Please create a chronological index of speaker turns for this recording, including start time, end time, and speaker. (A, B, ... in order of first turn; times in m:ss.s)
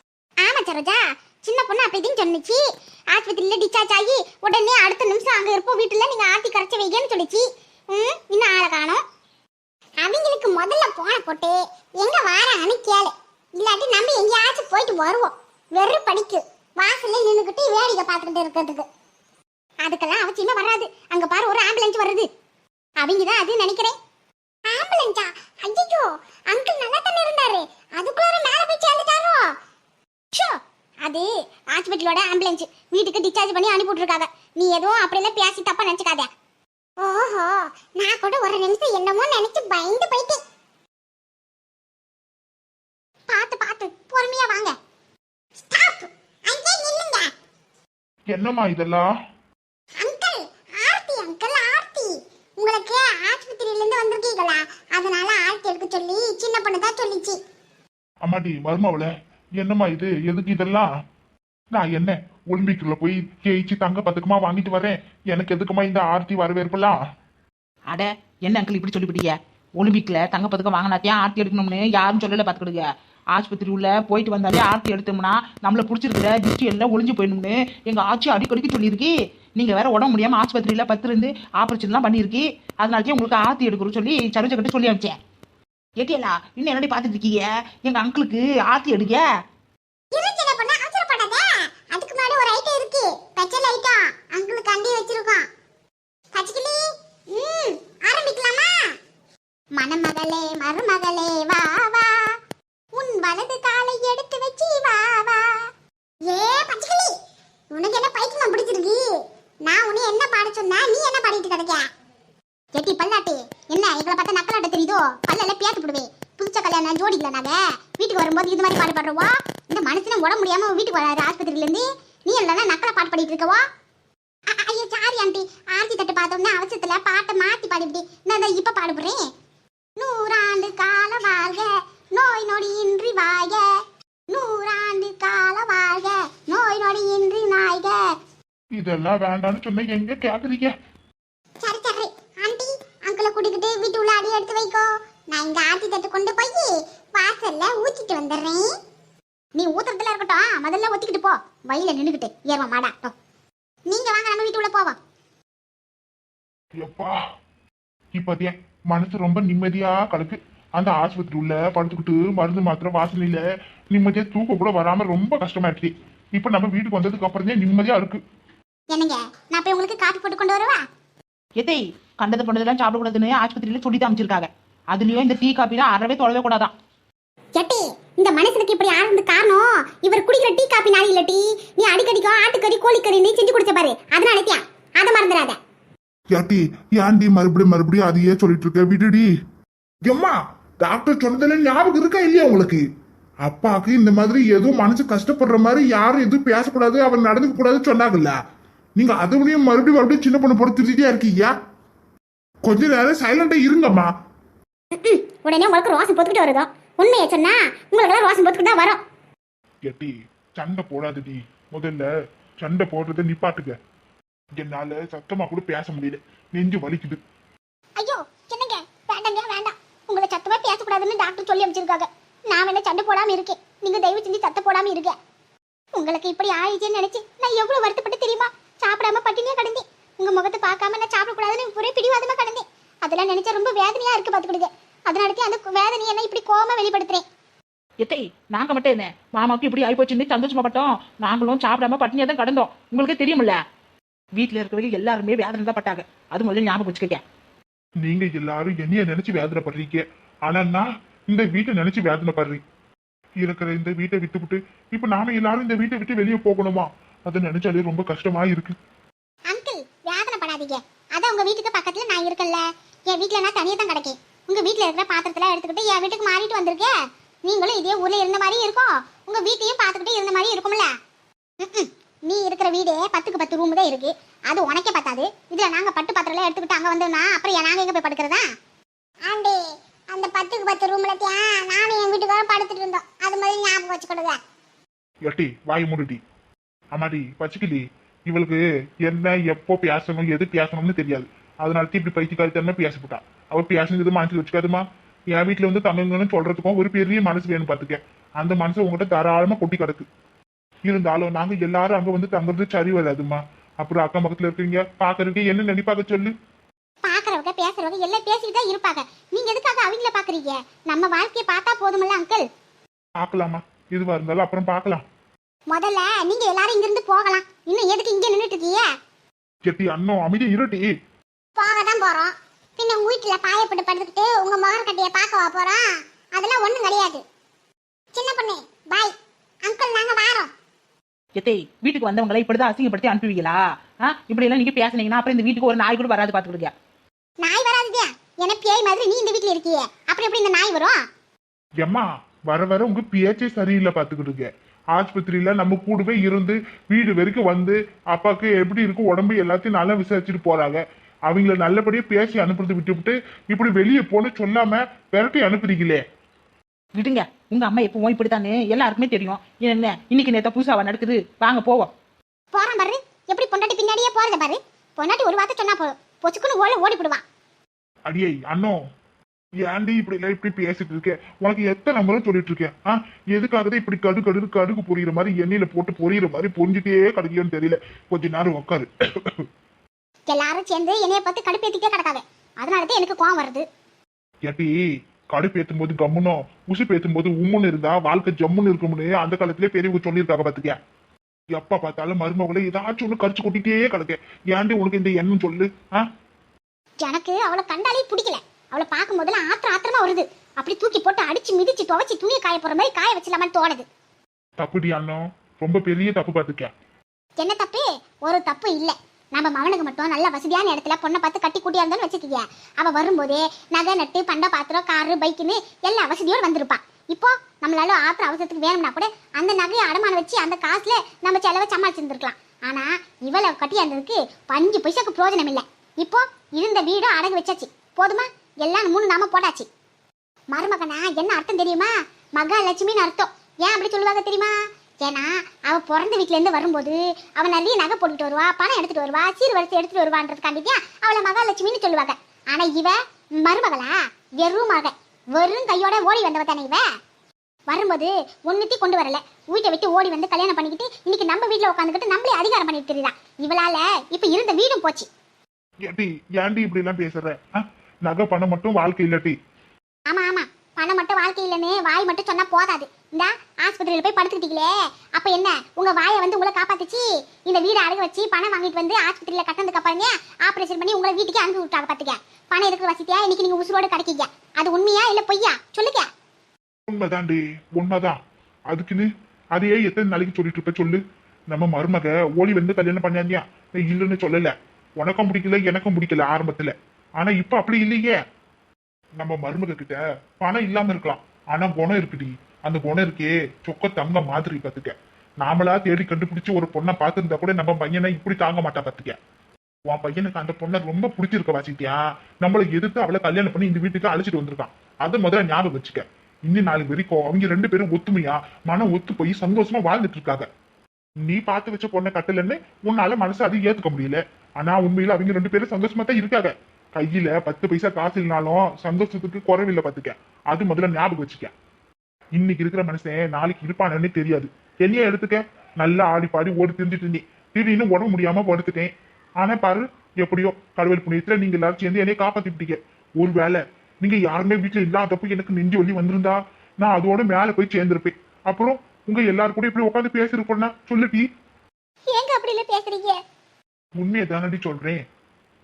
0:00.4-0:09.0 A
0:10.0-0:18.8 A
0:19.8-0:22.3 A
0:23.0-0:23.9 A
0:24.6-0:29.5 A
0:30.3-0:36.3 A
0:37.0-0:40.4 A
0:43.3-0:44.7 A
0:45.6-0:47.3 A
0:48.3-0:49.1 B
0:50.0-0:57.4 A
0:58.2-1:00.9 B
1:01.7-1:07.0 B
1:07.9-1:25.1 C
1:26.0-1:29.2 C
1:30.1-1:35.5 A
1:36.3-1:38.8 A
1:39.7-1:42.3 A
1:42.9-1:45.6 A
1:46.2-1:47.1 A
1:47.7-1:49.0 A
1:49.6-1:51.9 A
1:52.7-2:03.6 A
2:04.5-2:09.2 A
2:10.0-2:13.6 A
2:14.3-2:18.0 A
2:18.7-2:20.7 B
2:21.6-2:28.7 A
2:29.5-2:33.1 A
2:33.8-2:35.0 A
2:36.8-2:37.2 B
2:38.1-2:48.2 B
2:48.9-2:50.8 A
2:51.6-2:56.7 C
2:57.6-3:05.6 A
3:06.3-3:09.3 B
3:10.0-3:12.8 B
3:13.4-3:18.4 B
3:19.0-3:21.5 B
3:22.6-3:24.1 B
3:25.0-3:29.0 A
3:29.8-3:32.1 B
3:32.6-3:33.8 B
3:34.6-3:37.2 B
3:38.0-3:45.1 A
3:45.9-3:57.2 A
3:58.0-4:03.6 C
4:04.4-4:07.2 C
4:08.0-4:12.6 B
4:13.4-4:18.7 B
4:19.5-4:26.9 A
4:27.4-4:30.9 A
4:31.6-4:38.4 A
4:39.2-4:44.4 A
4:45.2-4:46.2 B
4:46.9-5:00.0 B
5:00.9-5:06.3 B
5:07.0-5:12.4 A
5:13.2-5:15.0 B
5:15.7-5:18.8 A
5:19.6-5:20.9 B
5:21.6-5:27.2 A
5:28.1-5:30.5 A
5:31.4-5:36.7 C
5:37.4-5:41.0 A
5:41.8-5:56.0 B
5:56.9-6:01.9 C
6:02.5-6:07.2 A
6:08.1-6:08.8 B
6:09.6-6:19.4 B
6:20.3-6:23.6 A
6:24.4-6:24.8 B
6:25.3-6:30.7 B
6:31.5-6:36.0 B
6:37.0-6:43.8 A
6:44.6-6:46.7 B
6:47.4-7:09.7 A
7:10.5-7:26.8 A
7:27.7-7:35.1 A
7:35.8-7:39.4 B
7:40.1-7:56.1 A
7:56.9-7:58.2 B
7:58.7-8:08.2 B
8:09.2-8:19.2 B
8:19.9-8:30.4 B
8:31.2-8:41.5 B
8:42.4-9:01.2 B
9:02.1-9:03.2 A
9:04.0-9:05.0 B